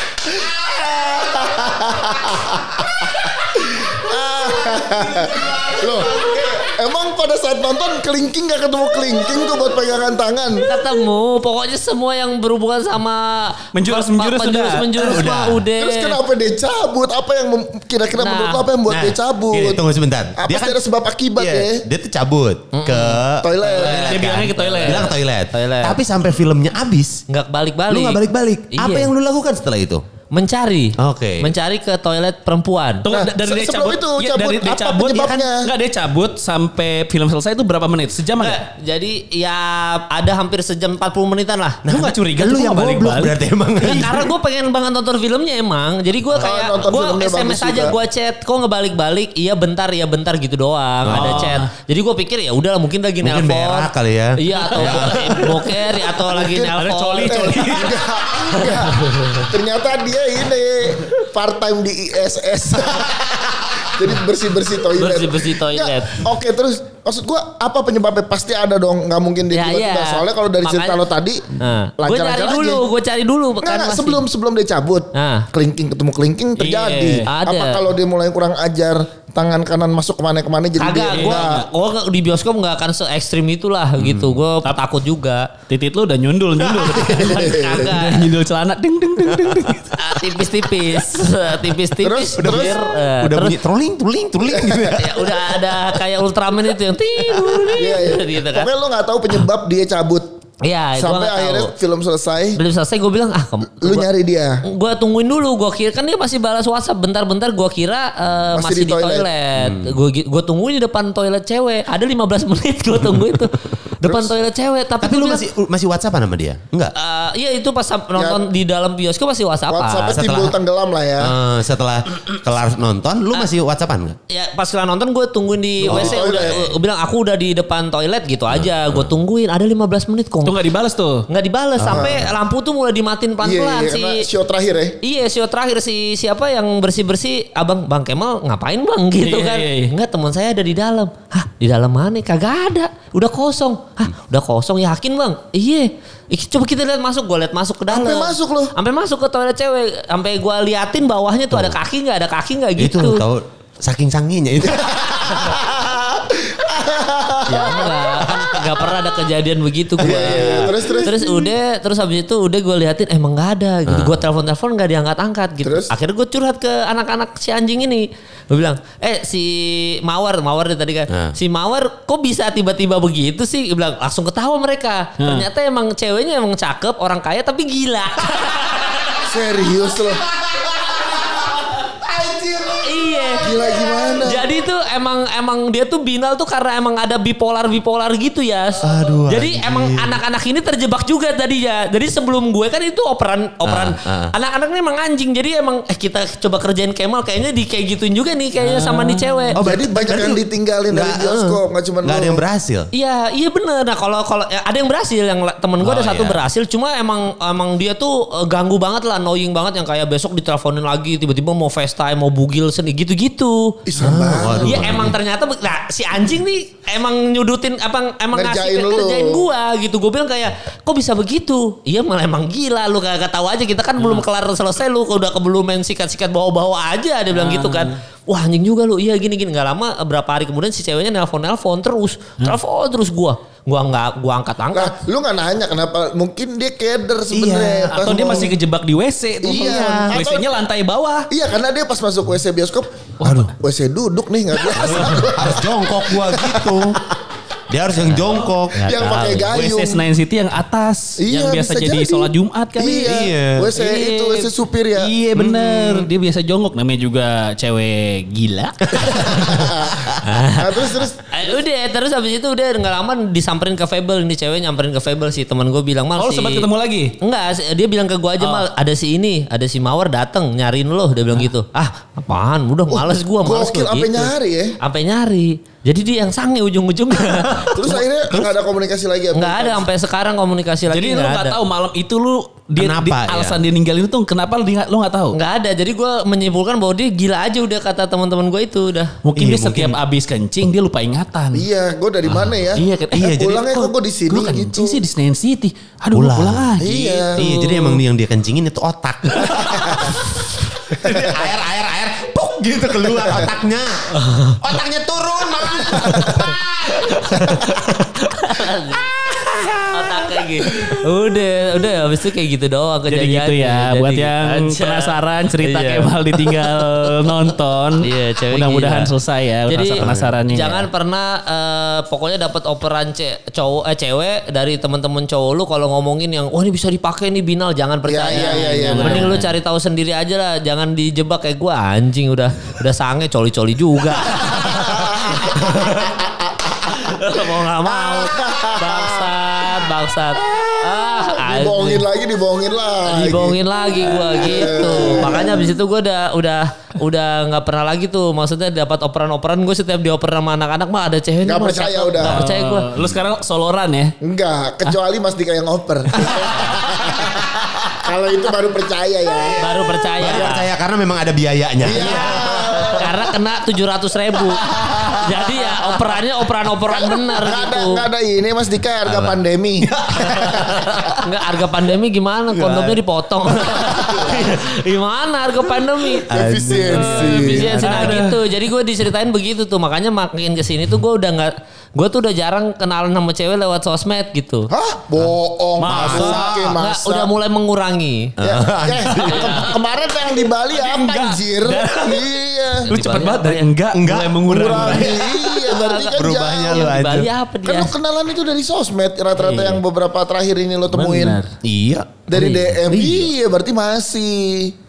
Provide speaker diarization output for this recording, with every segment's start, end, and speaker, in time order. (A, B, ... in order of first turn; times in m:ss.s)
0:00.3-0:03.4 A
0:01.0-0:02.6 B
0:03.6-0:10.6 B
0:03.9-0:06.7 A
0:10.6-0:16.2 C
0:13.7-0:15.3 D
0:15.0-0:15.6 A
0:15.5-0:19.8 B
0:18.2-0:18.6 C
0:18.9-0:20.8 A
0:20.4-0:21.8 B
0:21.4-0:27.2 A
0:22.7-0:23.2 C
0:23.4-0:24.2 B
0:23.7-0:24.0 C
0:23.8-0:25.1 D
0:24.8-0:26.0 C
0:27.3-0:28.2 C
0:27.9-0:30.0 A
0:28.7-0:29.1 C
0:30.3-0:33.0 C
0:31.0-0:31.5 A
0:33.0-0:38.6 D
0:33.1-0:35.7 B
0:38.4-0:41.8 C
0:41.8-0:44.3 A
0:41.9-0:44.2 D
0:43.8-0:57.6 C
0:46.3-0:48.0 B
0:51.0-0:51.6 A
0:51.1-0:51.7 D
0:53.2-0:55.7 A
0:56.3-1:11.4 B
0:56.4-0:58.0 D
0:58.6-0:59.4 C
1:02.9-1:03.3 A
1:05.0-1:06.2 C
1:09.5-1:11.0 C
1:11.6-1:14.2 C
1:12.0-1:12.8 B
1:13.6-1:21.6 B
1:15.1-1:15.4 C
1:16.6-1:17.3 D
1:17.3-1:17.8 C
1:20.8-1:25.5 C
1:21.1-1:21.5 D
1:24.0-1:24.4 A
1:25.7-1:30.0 D
1:27.0-1:28.0 B
1:27.1-1:28.3 C
1:30.0-1:33.6 C
1:32.0-1:32.8 B
1:32.4-1:36.0 A
1:34.5-1:35.0 B
1:35.0-1:38.7 C
1:37.7-1:40.3 B
1:40.6-1:41.7 C
1:41.0-1:42.6 B
1:42.5-1:44.1 C
1:43.8-1:44.6 B
1:44.6-1:55.4 C
1:48.5-1:49.3 B
1:49.6-1:50.0 A
1:54.0-1:54.3 B
1:55.0-1:56.9 A
1:56.9-2:00.2 C
1:58.1-1:58.4 B
1:59.7-2:01.3 B
2:00.1-2:00.5 A
2:01.2-2:04.2 A
2:04.3-2:10.5 C
2:05.8-2:06.7 B
2:05.9-2:06.6 A
2:08.5-2:09.1 A
2:10.4-2:11.2 D
2:11.3-2:14.2 C
2:11.8-2:12.4 A
2:11.8-2:12.3 B
2:13.4-2:15.0 B
2:15.0-2:33.2 C
2:19.2-2:19.9 D
2:27.9-2:28.7 B
2:32.8-2:35.6 A
2:34.6-2:38.0 B
2:37.5-2:59.2 C
2:40.0-2:41.5 B
2:40.1-2:40.6 A
2:43.9-2:44.2 A
2:45.6-2:45.9 B
2:51.1-2:51.3 A
2:55.2-2:55.4 D
2:58.4-3:04.0 A
2:59.3-3:00.2 B
3:02.8-3:03.5 C
3:03.4-3:04.4 B
3:04.2-3:19.6 C
3:08.8-3:10.2 A
3:13.6-3:14.3 A
3:18.6-3:19.5 D
3:19.6-3:22.9 A
3:19.6-3:22.4 B
3:22.9-3:33.8 C
3:25.8-3:26.4 A
3:33.8-3:35.1 B
3:34.0-3:35.2 A
3:34.6-3:54.9 C
3:38.3-3:39.5 B
3:47.3-3:47.9 D
3:54.7-3:58.6 B
3:57.3-3:58.5 A
3:57.9-4:01.3 D
3:59.4-4:00.5 B
3:59.5-4:00.2 A
4:01.3-4:02.9 B
4:03.2-4:03.5 A
4:03.5-4:07.0 B
4:04.8-4:07.0 A
4:07.7-4:09.3 A
4:08.8-4:09.5 C
4:08.8-4:10.0 B
4:09.5-4:19.5 D
4:11.2-4:15.1 B
4:13.0-4:13.7 A
4:15.4-4:16.0 A
4:19.1-4:21.2 B
4:20.2-4:26.6 C
4:26.2-4:27.1 D
4:27.2-4:38.0 C
4:32.9-4:34.8 B
4:37.7-4:39.9 B
4:39.3-4:41.6 C
4:40.9-4:45.4 D
4:42.8-4:43.6 A
4:45.3-4:49.1 C
4:49.2-4:51.6 D
4:49.4-4:50.0 A
4:51.5-4:55.0 B
4:52.7-4:58.0 D
4:53.1-4:53.8 A
4:56.1-5:07.7 A
4:56.8-4:57.4 B
5:01.0-5:01.4 B
5:03.1-5:03.5 B
5:07.1-5:09.1 C
5:09.3-5:09.7 A
5:09.9-5:17.1 C
5:13.1-5:20.9 D
5:18.0-5:19.1 C
5:19.7-5:36.1 C
5:20.0-5:20.3 A
5:28.0-5:29.4 B
5:28.3-5:29.5 D
5:34.4-5:37.1 B
5:36.9-5:42.0 C
5:37.8-5:39.4 B
5:40.3-5:45.7 B
5:43.1-5:52.9 C
5:51.4-5:52.4 B
5:52.2-5:54.1 D
5:54.2-5:59.6 B
5:59.6-6:00.6 C
6:00.2-6:03.0 A
6:00.2-6:00.5 B
6:01.8-6:03.1 B
6:02.8-6:04.6 C
6:04.7-6:05.4 A
6:05.2-6:08.0 C
6:06.9-6:10.9 B
6:09.0-6:11.2 A
6:11.2-6:16.3 C
6:12.5-6:14.4 A
6:16.3-6:18.2 A
6:16.3-6:18.1 B
6:16.8-6:18.4 D
6:17.0-6:24.7 C
6:24.7-6:27.3 B
6:25.8-6:26.6 D
6:25.8-6:26.7 A
6:26.8-6:28.3 C
6:28.4-6:29.7 A
6:28.4-6:32.9 B
6:30.7-6:35.3 D
6:32.9-6:33.6 C
6:33.9-6:35.5 A
6:34.4-6:37.0 B
6:35.6-6:37.9 C
6:36.1-6:37.3 A
6:37.6-6:41.4 B
6:39.4-6:39.8 D
6:40.9-6:41.5 D
6:41.6-6:42.2 A
6:42.3-6:44.7 B